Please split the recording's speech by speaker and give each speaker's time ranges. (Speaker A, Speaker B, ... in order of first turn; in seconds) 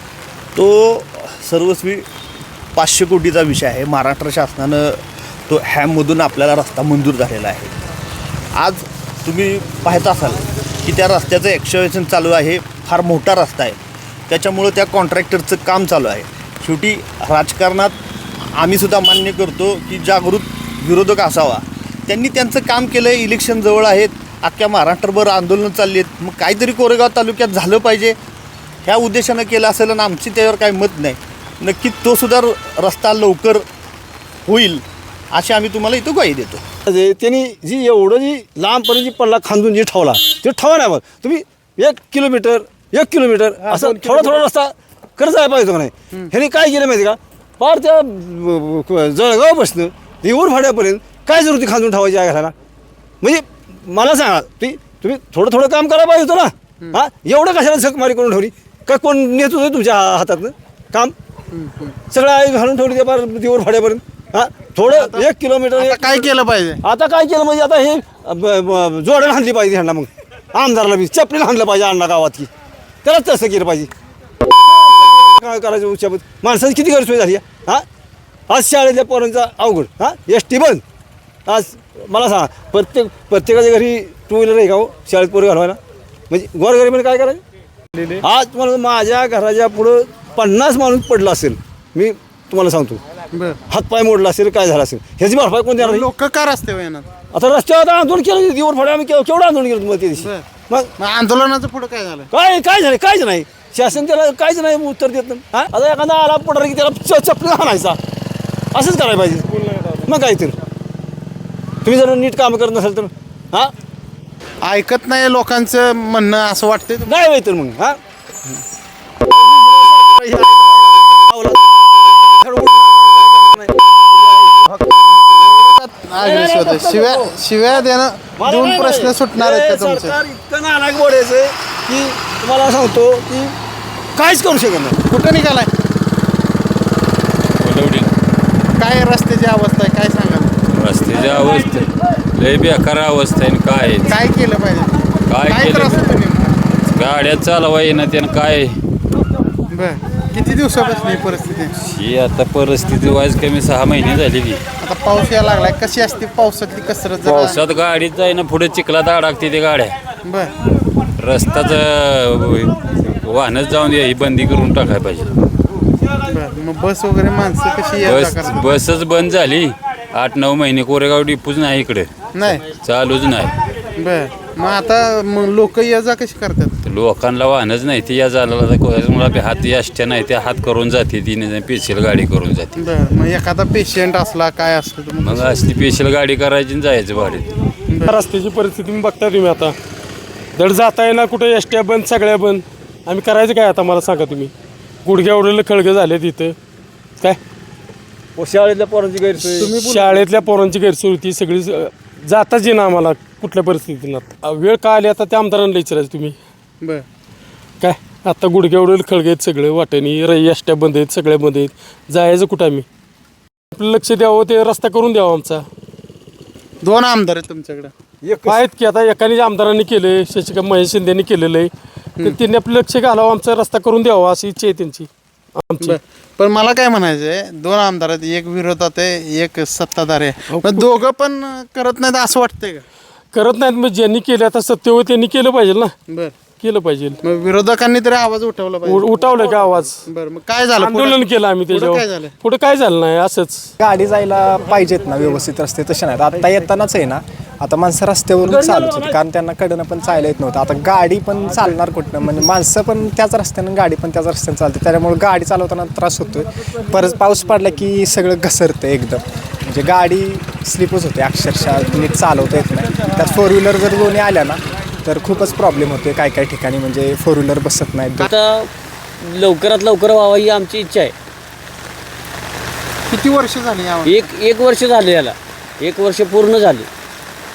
Speaker A: 0.5-2.0, 2.8-7.7, 8.5-13.8, 14.3-28.2, 28.9-33.6, 34.5-36.6, 43.6-44.4
Speaker B: 36.9-52.5, 53.2-61.1, 62.1-66.3, 66.8-72.5, 73.0-73.9, 74.4-77.8, 78.5-80.8, 81.5-85.8, 86.3-87.4, 88.2-93.0, 93.7-96.1, 97.3-100.9, 102.3-108.0, 108.7-110.5, 111.8-113.7, 117.0-118.0, 119.2-121.6, 122.2-125.3, 126.2-127.3, 128.4-133.5, 134.2-135.0, 198.4-199.8, 218.2-218.6, 248.5-249.1
Speaker C: 61.5-61.9, 64.8-66.8, 93.3-93.6, 95.8-97.1, 100.2-100.4, 101.0-102.3, 114.6-117.2, 125.5-130.2, 135.1-135.7, 138.8-140.6, 144.1-144.9, 145.5-146.6, 149.7-151.7, 154.8-157.6, 160.2-160.5, 166.2-168.7, 172.3-172.6, 174.0-176.7, 182.8-185.6, 187.9-188.2, 199.5-200.4, 216.8-217.9, 225.8-232.8, 236.1-236.3, 237.2-242.3, 273.1-274.3
Speaker D: 137.6-138.1, 140.7-144.2, 145.3-146.1, 146.8-148.8, 151.8-154.6, 157.2-159.9, 161.2-165.3, 168.0-172.1, 172.8-173.6, 176.8-182.8, 185.2-187.5
Speaker E: 188.1-189.7, 190.6-194.5, 195.0-196.5, 199.6-206.3, 207.8-212.8, 213.7-215.6, 218.4-221.7, 222.2-225.1, 225.6-226.0, 230.5-230.9, 233.3-235.9, 236.6-237.2, 238.8-240.0, 240.8-243.7
Speaker F: 243.8-268.3
Speaker G: 268.2-268.7, 269.2-271.1, 274.0-276.9